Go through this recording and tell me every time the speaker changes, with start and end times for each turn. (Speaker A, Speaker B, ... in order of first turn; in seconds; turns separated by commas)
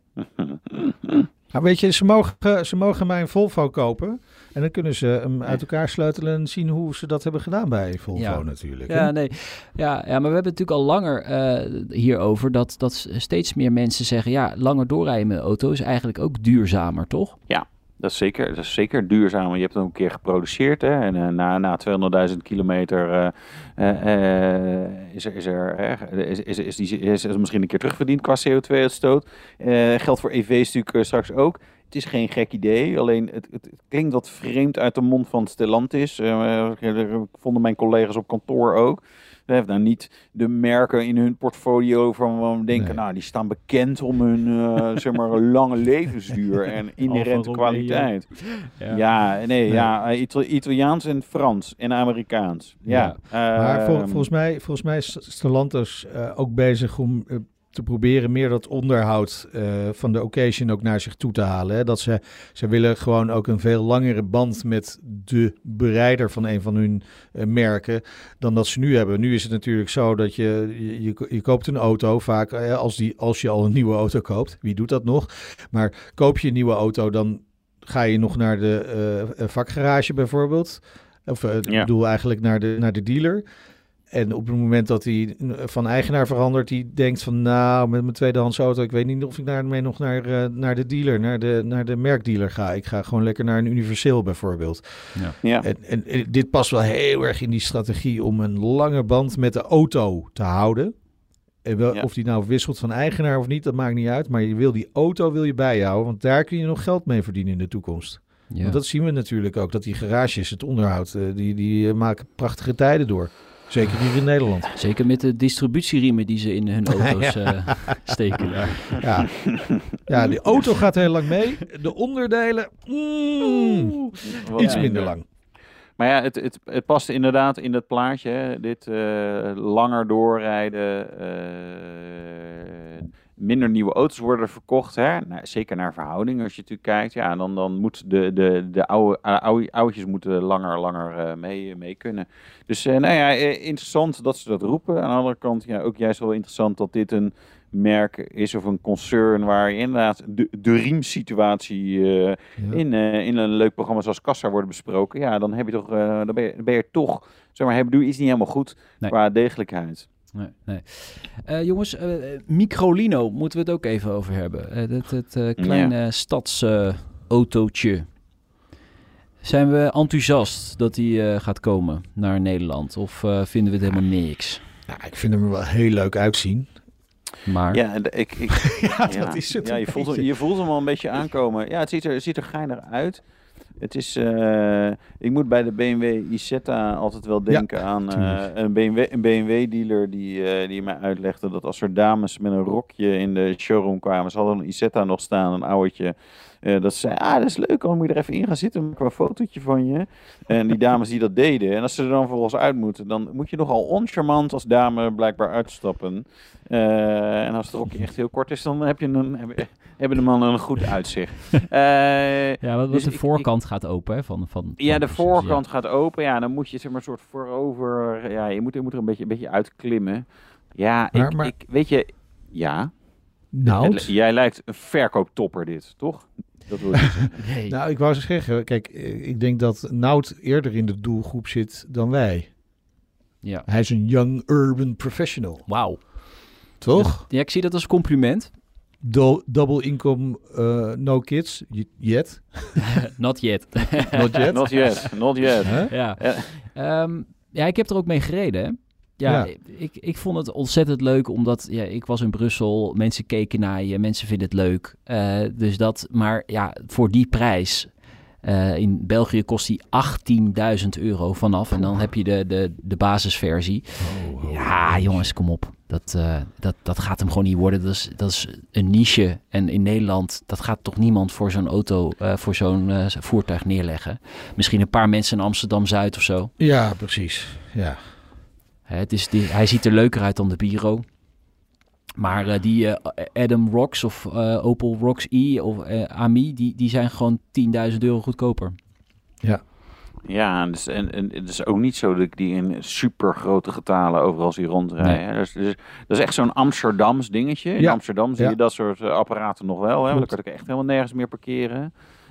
Speaker A: 0.2-1.3, Speaker B: 1.5-9.1, Speaker C: 8.1-17.4, Speaker A: 17.5-54.2, Speaker B: 42.7-43.0, Speaker C: 47.0-49.0, Speaker C: 52.9-53.2, Speaker B: 53.5-83.4, Speaker B: 84.1-101.0, Speaker B: 101.6-114.7, Speaker C: 108.5-108.8, Speaker C: 114.7-119.0, Speaker B: 116.9-118.0, Speaker B: 118.5-125.2, Speaker C: 120.2-120.6, Speaker A: 124.2-125.2, Speaker C: 124.6-124.9, Speaker A: 126.0-160.1, Speaker C: 160.3-168.2, Speaker A: 165.6-165.9, Speaker C: 169.4-174.6, Speaker B: 174.9-176.7, Speaker C: 177.4-177.8, Speaker A: 177.7-183.2, Speaker B: 178.7-180.3, Speaker A: 183.8-213.4, Speaker B: 187.5-188.5, Speaker C: 212.6-215.6, Speaker A: 214.8-223.0, Speaker B: 221.1-221.5, Speaker B: 223.5-224.1, Speaker A: 223.6-227.4, Speaker C: 227.4-227.7, Speaker B: 227.7-232.6, Speaker B: 233.7-235.7, Speaker C: 235.7-238.5, Speaker B: 236.8-237.2, Speaker B: 239.0-243.0, Speaker C: 243.1-244.8, Speaker B: 244.1-245.9, Speaker A: 244.5-246.5, Speaker C: 245.9-276.5, Speaker B: 249.2-249.5, Speaker B: 261.8-262.1, Speaker B: 264.0-265.3, Speaker B: 276.6-278.1, Speaker C: 278.9-281.2, Speaker C: 282.2-288.8, Speaker A: 290.3-301.9, Speaker B: 297.8-298.6